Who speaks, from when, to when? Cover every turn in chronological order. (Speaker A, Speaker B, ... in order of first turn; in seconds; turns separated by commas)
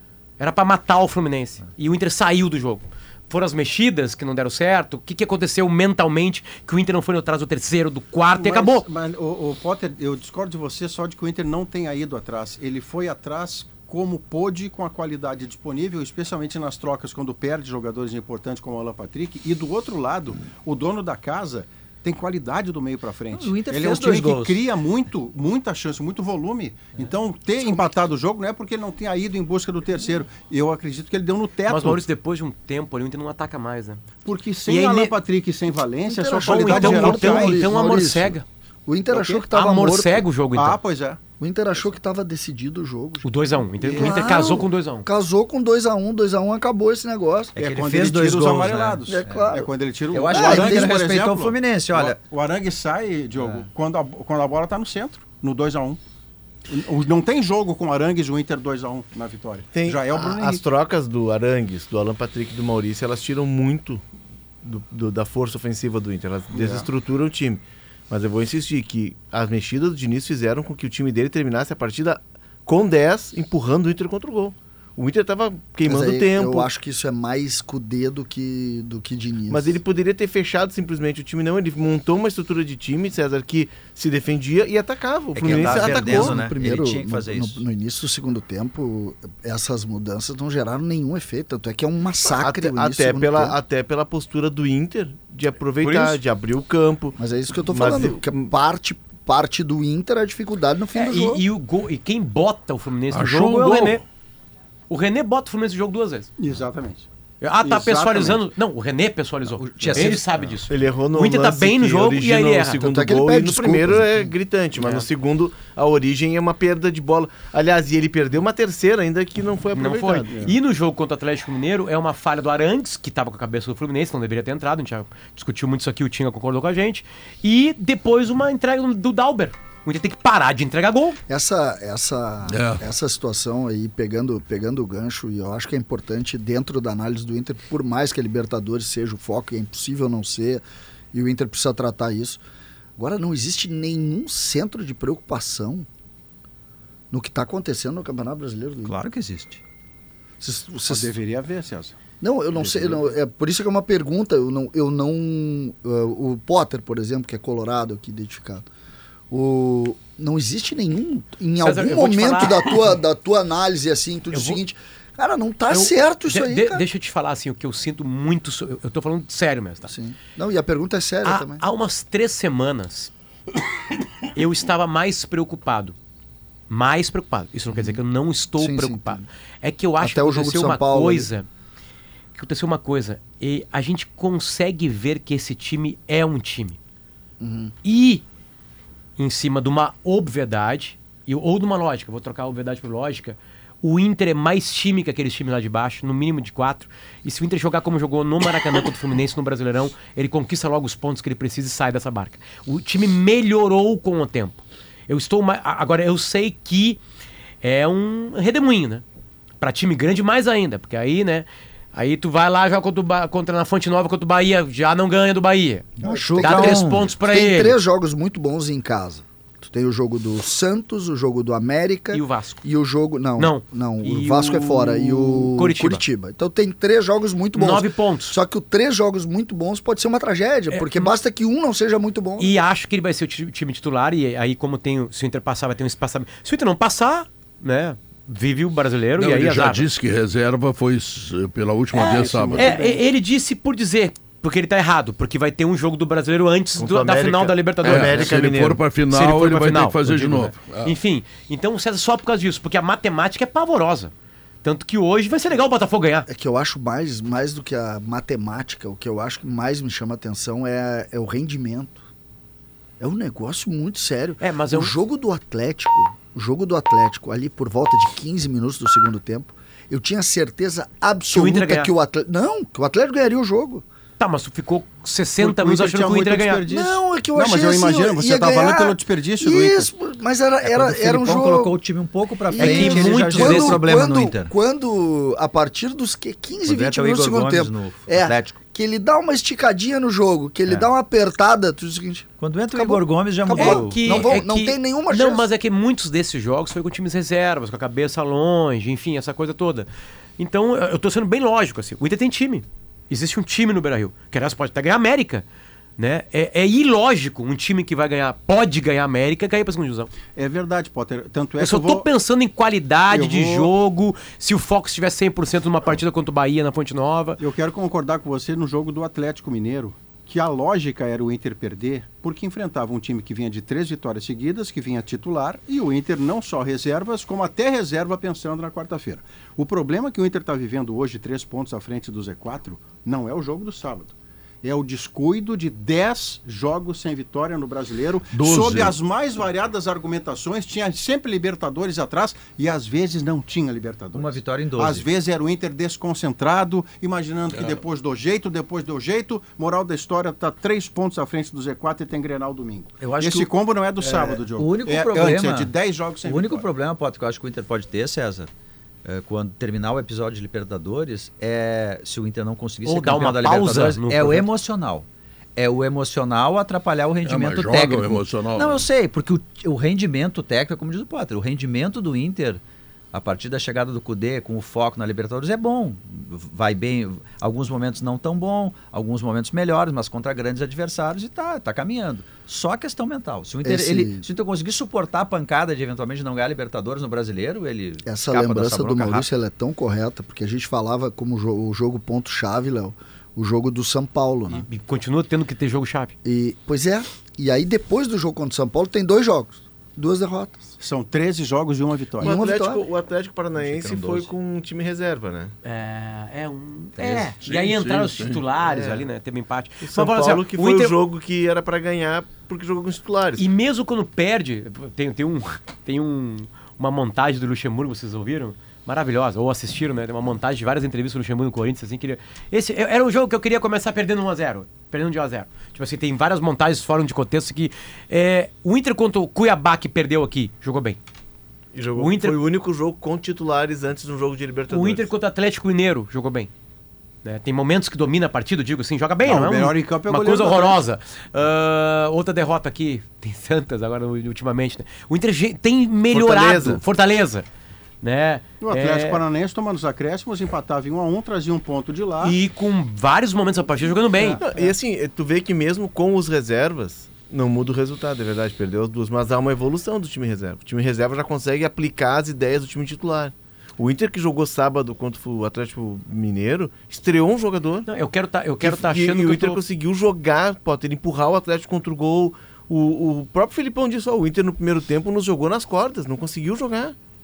Speaker A: 0.4-8.9, Speaker B: 8.4-32.0, Speaker C: 23.3-24.6, Speaker A: 31.7-34.0, Speaker B: 34.2-37.7, Speaker A: 34.7-35.1, Speaker D: 36.1-40.2, Speaker A: 36.4-38.4, Speaker B: 39.1-39.4, Speaker A: 39.5-40.8, Speaker B: 40.5-41.2, Speaker D: 41.4-43.3, Speaker A: 43.2-45.1, Speaker B: 43.8-44.2, Speaker D: 43.8-47.5, Speaker C: 47.5-52.2, Speaker B: 47.6-56.0, Speaker D: 49.0-49.7, Speaker D: 50.3-51.0, Speaker C: 53.4-53.6, Speaker B: 56.7-60.6, Speaker E: 59.7-64.0, Speaker E: 64.6-76.7, Speaker B: 66.5-66.9, Speaker D: 75.8-79.8, Speaker E: 79.5-86.4, Speaker C: 85.3-87.6, Speaker D: 85.4-93.6, Speaker E: 92.2-98.4, Speaker A: 95.8-96.2, Speaker D: 97.2-101.4, Speaker A: 100.9-104.0, Speaker F: 103.1-104.0, Speaker A: 104.9-106.3, Speaker B: 106.4-107.0, Speaker A: 107.4-112.8, Speaker B: 107.6-108.4, Speaker C: 109.5-110.6, Speaker E: 110.7-120.3, Speaker D: 112.8-114.2, Speaker A: 114.8-115.1, Speaker A: 119.7-131.2, Speaker D: 131.3-142.4, Speaker F: 132.5-132.8, Speaker D: 143.0-145.9, Speaker D: 147.1-148.9, Speaker C: 148.8-149.6, Speaker D: 150.4-151.1, Speaker B: 150.9-151.9, Speaker D: 152.2-158.7, Speaker D: 159.3-166.8, Speaker A: 161.6-162.8, Speaker A: 164.3-164.6, Speaker A: 165.7-169.9, Speaker D: 169.9-171.6, Speaker A: 171.2-173.1, Speaker A: 174.3-175.9, Speaker A: 176.7-181.4, Speaker D: 177.7-178.0, Speaker D: 178.6-179.2, Speaker D: 180.0-181.3, Speaker A: 182.3-186.8, Speaker D: 187.4-187.7, Speaker A: 187.8-188.2, Speaker A: 189.2-207.0, Speaker A: 207.6-209.0, Speaker A: 209.6-217.8, Speaker D: 216.0-232.6, Speaker C: 216.0-217.1, Speaker A: 222.1-222.6, Speaker A: 223.4-226.0, Speaker A: 227.5-228.3, Speaker A: 230.7-231.1, Speaker A: 232.4-239.8, Speaker F: 239.2-242.8, Speaker B: 241.9-243.0, Speaker E: 242.0-242.5, Speaker A: 242.6-248.3, Speaker E: 246.8-248.8, Speaker F: 247.8-250.9, Speaker A: 249.1-254.1, Speaker A: 254.6-256.2, Speaker D: 256.3-262.0, Speaker D: 263.0-273.8, Speaker A: 264.4-264.9, Speaker A: 271.3-271.9, Speaker A: 274.2-276.6, Speaker B: 275.4-279.9, Speaker D: 276.6-281.8, Speaker C: 280.6-284.5, Speaker D: 282.5-295.4, Speaker A: 282.6-283.8, Speaker C: 286.6-288.6, Speaker C: 292.4-294.2, Speaker A: 293.5-305.4, Speaker A: 306.0-310.1, Speaker B: 310.3-312.1, Speaker A: 311.6-317.4, Speaker B: 313.1-313.7, Speaker B: 317.4-356.6, Speaker F: 338.3-338.9, Speaker C: 344.1-345.1, Speaker F: 347.5-347.8, Speaker C: 353.0-355.7, Speaker C: 356.2-358.5, Speaker C: 359.0-372.6, Speaker A: 362.8-364.5, Speaker F: 367.2-368.8, Speaker C: 373.1-389.3, Speaker D: 383.6-384.2, Speaker D: 388.0-394.6, Speaker A: 394.5-396.1, Speaker D: 396.2-400.7, Speaker B: 400.8-402.3, Speaker D: 402.2-402.9, Speaker E: 402.2-405.5, Speaker C: 403.6-404.3, Speaker A: 405.6-411.0, Speaker C: 407.0-407.3, Speaker F: 407.4-408.4, Speaker E: 408.6-409.1, Speaker E: 409.8-413.4, Speaker A: 413.4-431.0, Speaker E: 431.7-435.1, Speaker A: 431.9-432.4, Speaker A: 434.7-436.5, Speaker A: 437.2-447.4, Speaker B: 439.2-440.8, Speaker E: 446.1-446.8, Speaker A: 448.0-449.2, Speaker B: 448.6-452.4, Speaker A: 452.2-454.4, Speaker B: 454.1-454.7, Speaker E: 454.4-467.9, Speaker A: 467.9-469.6, Speaker E: 468.6-476.9